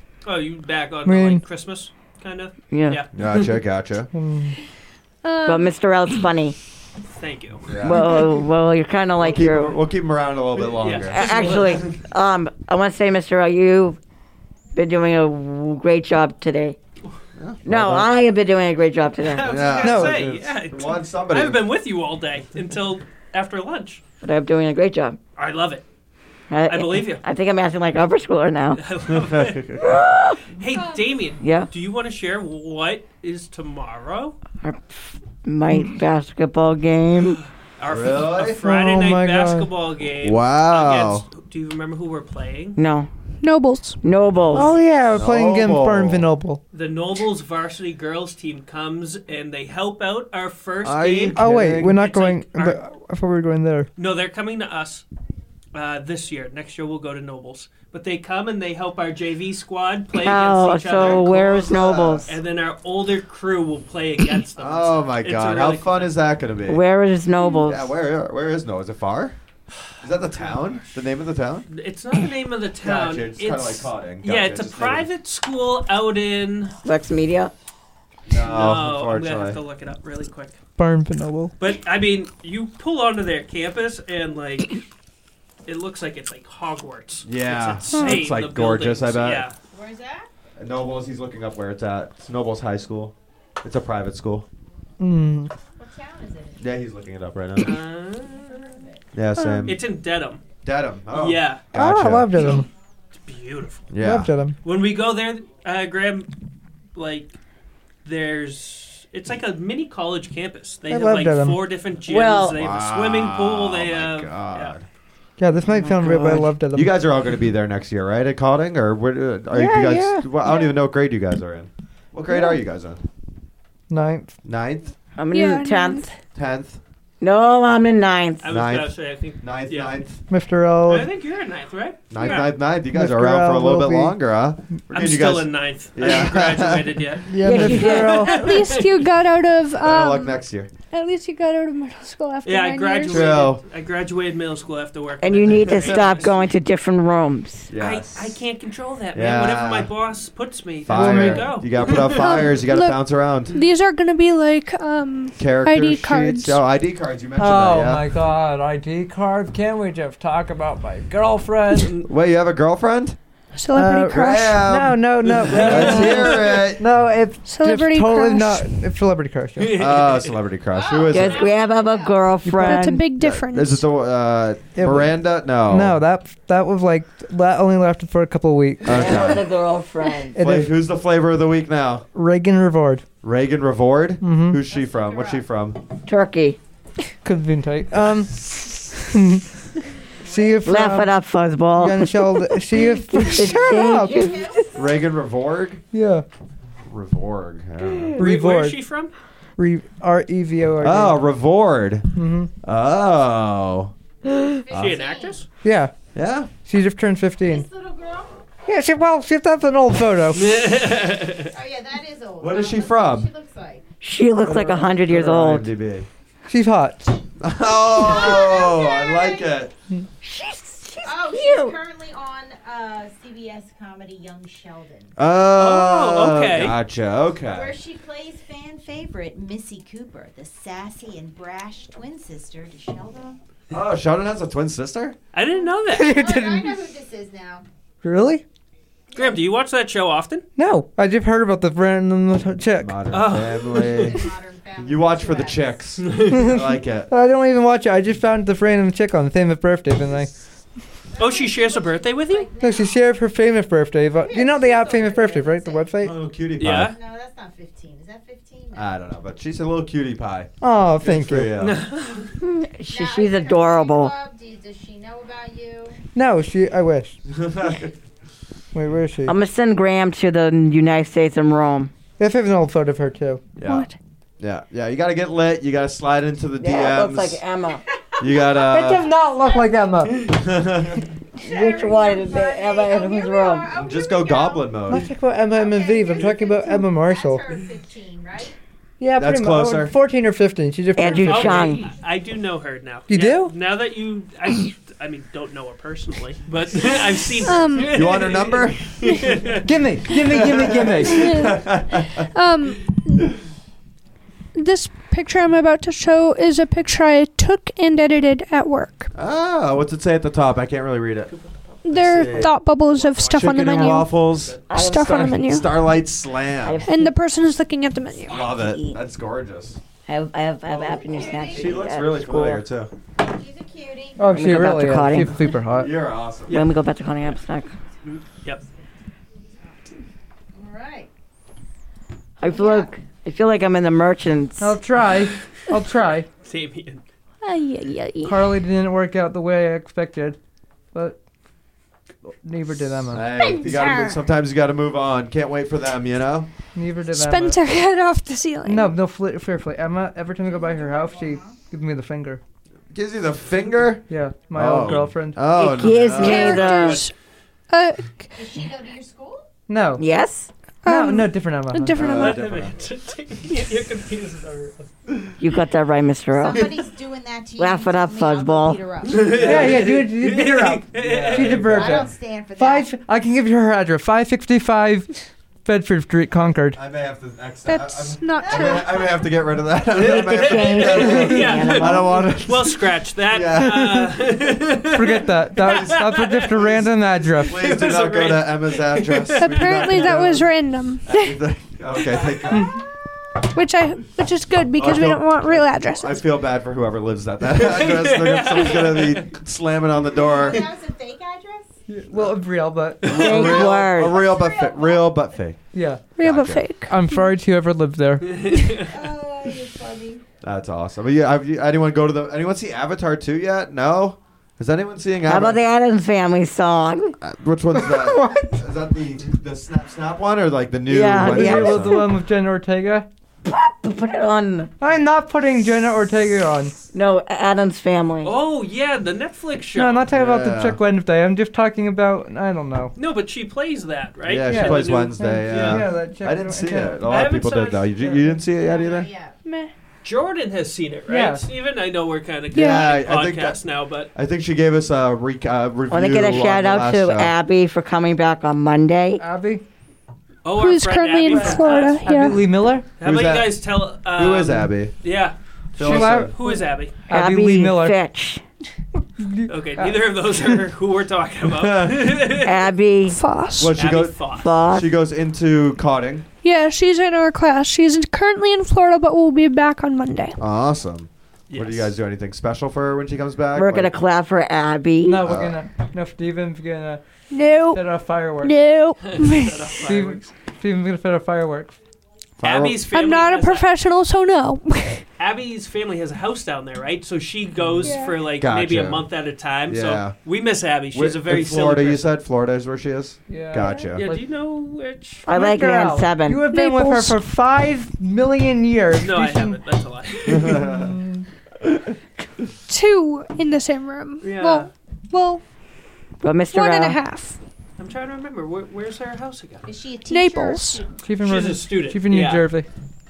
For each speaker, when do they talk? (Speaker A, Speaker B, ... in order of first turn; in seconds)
Speaker A: 0.2-3.6, 7.2-7.7, 10.6-11.9, 19.2-24.0, 25.4-25.8, 26.7-27.2, 28.8-29.9, 30.5-34.4, 37.8-42.8, 46.7-52.8, 54.0-55.0, 55.7-61.7, 62.2-66.2, 70.3-70.8, 71.7-76.7, 78.3-80.6, 81.6-84.8, 85.7-89.5, 97.6-98.7, 99.6-100.4, 101.1-101.6, 103.2-103.9, 104.6-106.3, 106.9-107.3, 108.0-114.7, 128.4-130.0, 130.8-132.5, 134.9-139.0, 142.4-146.3, 147.8-152.5, 161.7-162.1, 165.2-166.7, 169.6-170.4, 198.2-199.1, 204.7-205.5, 210.3-211.5, 225.5-226.8, 235.3-236.2, 239.1-240.4, 243.1-244.2, 246.0-246.5, 251.2-252.5, 256.6-256.9, 261.6-262.3, 291.2-299.7, 311.3-314.7, 328.0-328.6, 336.4-337.0, 355.8-357.1, 362.0-364.9, 369.0-371.8, 379.9-386.6, 387.4-390.3, 392.1-392.6, 397.5-399.3, 403.0-403.5, 408.2-409.0, 428.2-430.1, 432.9-435.8, 437.0-437.9, 440.0-444.1, 450.4-452.1, 453.0-456.9, 459.5-462.7, 463.7-464.5, 471.5-471.9, 479.0-480.3, 482.4-483.7, 485.2-492.1, 493.9-495.2, 498.9-500.7, 504.2-504.7, 507.8-509.7, 511.2-512.5
Speaker B: 1.0-1.4, 4.1-4.6, 19.8-20.3, 38.6-39.7, 44.5-46.6, 51.3-53.9, 80.8-81.5, 95.0-95.5, 101.7-102.7, 104.0-104.6, 110.9-111.6, 115.4-116.9, 119.6-120.2, 123.9-124.3, 130.3-131.1, 132.9-134.1, 137.3-138.5, 150.9-151.6, 157.4-161.9, 163.7-169.8, 172.4-172.9, 174.7-175.1, 175.6-179.2, 180.3-180.7, 182.1-183.1, 184.2-184.6, 187.2-189.4, 190.2-191.1, 191.8-194.3, 195.9-196.2, 198.2-198.8, 199.6-201.2, 202.1-202.5, 205.6-205.9, 206.6-207.7, 208.7-210.6, 216.5-217.2, 235.9-236.7, 238.0-238.4, 240.6-243.0, 246.3-250.3, 252.6-256.1, 260.6-261.5, 266.1-267.2, 268.7-269.3, 272.2-273.6, 278.6-280.3, 284.9-287.4, 289.0-291.7, 293.1-293.5, 299.6-301.3, 324.2-325.9, 334.6-336.3, 338.2-340.4, 340.9-341.2, 342.3-343.3, 346.7-347.6, 348.6-352.4, 354.1-355.4, 359.7-360.0, 360.9-362.1, 369.4-376.8, 384.9-387.6, 401.9-403.2, 405.7-406.1, 406.9-408.5, 417.8-418.5, 421.1-423.1, 424.8-426.7, 429.7-432.9, 434.4-437.0, 441.1-441.4, 449.2-449.6, 452.0-452.9, 455.8-458.0, 459.2-460.6, 475.0-477.0, 477.7-478.5, 479.8-481.8, 493.3-494.2, 495.2-499.6, 500.4-501.2, 511.0-512.7
Speaker C: 2.7-3.0, 5.5-6.5, 7.8-9.8, 11.1-14.0, 14.7-16.8, 17.6-19.6, 24.2-25.2, 26.5-28.8, 29.8-30.4, 31.4-31.7, 34.6-37.4, 42.8-43.1, 44.0-44.7, 60.1-62.3, 66.7-67.9, 76.8-77.5, 112.1-112.6, 115.7-116.5, 125.2-126.1, 127.2-128.4, 137.4-138.2, 145.2-147.7, 171.1-173.0, 178.9-180.4, 186.1-186.6, 190.6-194.7, 214.0-215.7, 220.2-221.8, 262.4-264.1, 269.2-271.9, 276.6-277.8, 281.4-283.7, 290.9-291.9, 314.7-315.4, 316.6-317.1, 318.4-319.0, 320.1-322.6, 324.3-325.4, 326.5-327.7, 332.4-334.8, 355.5-357.0, 360.0-360.5, 365.4-366.7, 367.6-368.8, 380.0-382.3, 403.1-404.2, 415.2-417.2, 420.9-422.1, 423.4-424.7, 426.9-428.3, 445.9-449.2, 457.1-458.4, 462.4-463.2, 464.4-464.9, 473.5-475.2, 495.2-496.4, 506.2-507.0
Speaker D: 3.1-4.1, 7.7-8.3, 9.2-11.8, 17.4-18.1, 19.4-21.6, 29.1-30.0, 37.9-38.6, 40.2-41.2, 45.1-46.3, 50.8-52.0, 61.0-62.4, 64.6-66.8, 67.6-69.4, 70.0-71.7, 72.8-75.1, 78.3-79.6, 87.2-89.5, 90.6-94.5, 96.6-97.8, 99.1-99.8, 100.6-102.6, 103.9-104.3, 112.5-114.9, 116.7-123.0, 124.4-124.9, 126.3-126.8, 128.4-130.2, 132.1-137.2, 139.8-140.7, 143.1-143.6, 145.7-146.2, 147.7-148.4, 149.1-149.9, 150.8-153.6, 155.4-158.1, 162.0-163.2, 164.1-166.8, 169.7-171.5, 173.2-176.0, 178.8-179.5, 180.4-182.1, 183.2-185.8, 194.7-195.8, 196.8-198.2, 200.8-202.1, 202.6-203.9, 204.7-205.0, 206.1-206.5, 212.4-213.3, 214.4-216.1, 217.4-219.7, 225.2-227.8, 233.7-235.2, 242.8-244.2, 244.8-247.1, 256.0-256.9, 258.7-261.8, 267.3-267.9, 273.6-273.9, 274.4-277.4, 278.2-279.1, 280.3-281.0, 283.7-285.1, 289.2-289.9, 297.9-299.1, 300.4-302.3, 309.1-311.3, 311.9-312.5, 313.3-316.8, 318.3-319.8, 321.5-322.9, 325.7-326.6, 343.1-346.5, 352.9-356.7, 361.9-362.8, 370.9-372.0, 376.7-384.1, 385.6-390.5, 391.0-392.8, 394.8-400.7, 403.0-405.6, 406.2-406.7, 410.4-415.6, 417.2-422.0, 430.1-430.8, 434.2-439.1, 442.5-443.6, 444.1-447.3, 453.0-453.6, 454.1-454.9, 455.8-456.3, 461.5-462.2, 463.6-466.2, 470.4-473.9, 475.2-475.6, 482.4-482.8, 488.4-489.1, 489.7-490.1, 490.9-494.0, 500.3-500.9, 501.6-501.9
Speaker E: 5.2-5.7, 30.7-31.1, 43.4-44.0, 67.4-67.7, 87.9-88.2, 99.4-99.7, 125.3-126.2, 138.2-140.4, 140.9-143.4, 152.0-156.6, 163.5-164.6, 167.4-168.7, 172.6-173.8, 273.6-273.9, 297.4-298.1, 301.0-301.7, 302.2-303.3, 304.5-309.1, 311.8-314.2, 314.7-315.8, 316.9-318.4, 337.4-338.5, 343.4-344.2, 347.1-348.9, 356.1-357.1, 357.7-358.2, 360.8-362.4, 377.6-379.1, 389.4-391.4, 393.4-396.2, 406.2-407.2, 439.4-439.7, 442.5-442.9, 450.5-452.5, 463.1-463.8, 466.4-470.4, 477.3-477.8, 478.4-479.8, 482.9-485.0, 487.8-488.1, 493.6-493.9, 496.5-497.2, 502.7-505.4, 506.5-507.4, 510.1-510.9
Speaker F: 89.7-90.3, 95.8-96.7, 98.3-99.0, 170.7-172.3, 184.7-185.5, 190.2-190.8, 193.5-194.9, 204.6-205.4, 207.4-208.4, 211.5-213.8, 217.9-219.6, 221.0-225.1, 227.4-233.4, 235.6-237.7, 239.1-239.4, 243.7-245.8, 251.1-253.2, 254.2-256.0, 256.6-258.9, 262.9-266.0, 278.2-278.5, 279.4-279.9, 281.4-288.6, 321.0-321.8, 323.2-324.3, 330.5-331.1, 332.4-332.9, 350.4-351.6, 358.3-359.5, 366.3-369.8, 371.6-372.9, 378.4-379.2, 400.1-401.7, 403.4-405.3, 408.8-410.2, 438.5-439.4, 509.6-511.0